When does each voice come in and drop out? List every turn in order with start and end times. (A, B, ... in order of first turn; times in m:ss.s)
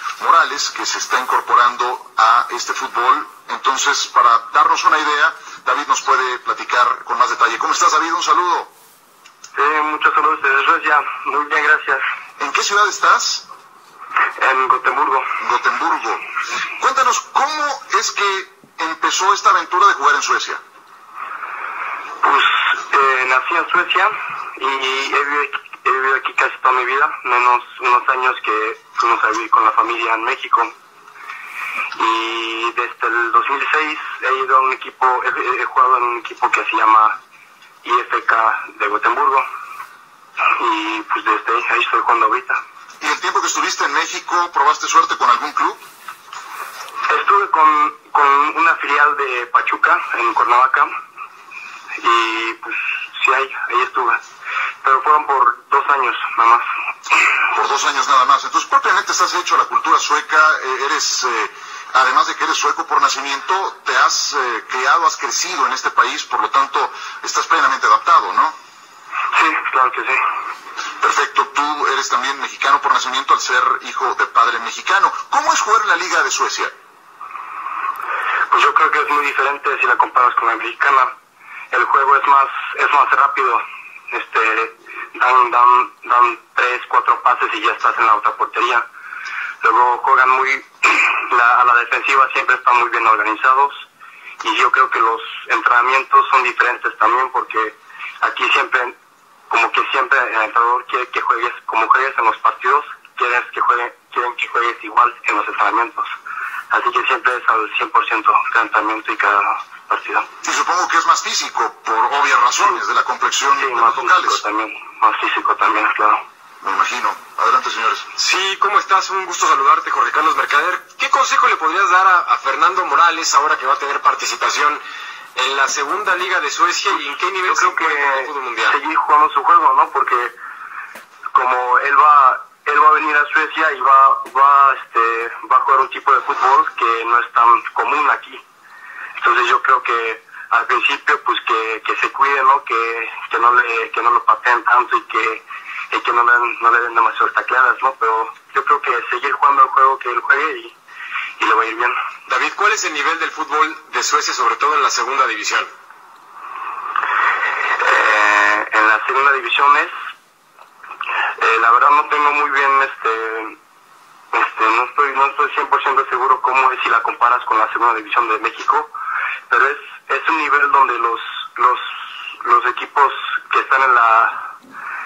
0:00.2-0:08.7 A
0:09.5-0:12.0 B
0:12.4-0:13.4 A
0:14.4-0:15.3 B
0:15.4-0:16.2 A
0:16.8-0:20.6 A
0:22.2-0:30.7 B
0:31.9-0:37.2 B
0:37.8-0:39.4 B
0:40.6-0:42.6 B
0:43.0-0:45.8 A
0:47.1-0:50.9 B
0:52.0-0:54.2 B
0:54.8-0:56.6 B
0:57.5-1:08.6 A
1:09.3-1:10.2 B
1:11.0-1:16.7 A
1:18.5-1:21.1 B
1:21.7-1:28.8 B
1:29.6-1:33.8 B
1:34.4-1:38.9 B
1:39.5-1:46.1 B
1:46.7-1:50.2 B
1:50.4-1:54.4 A
1:53.6-1:56.2 B
1:56.6-1:58.1 A
1:58.2-2:04.8 C
2:05.3-2:08.8 C
2:07.5-2:10.4 B
2:11.3-2:18.4 B
2:19.2-2:30.7 B
2:31.4-2:32.0 B
2:32.3-2:35.7 C
2:37.8-2:39.9 B
2:41.4-2:43.6 B
2:44.3-2:48.9 B
2:49.5-2:51.9 B
2:52.4-2:54.5 B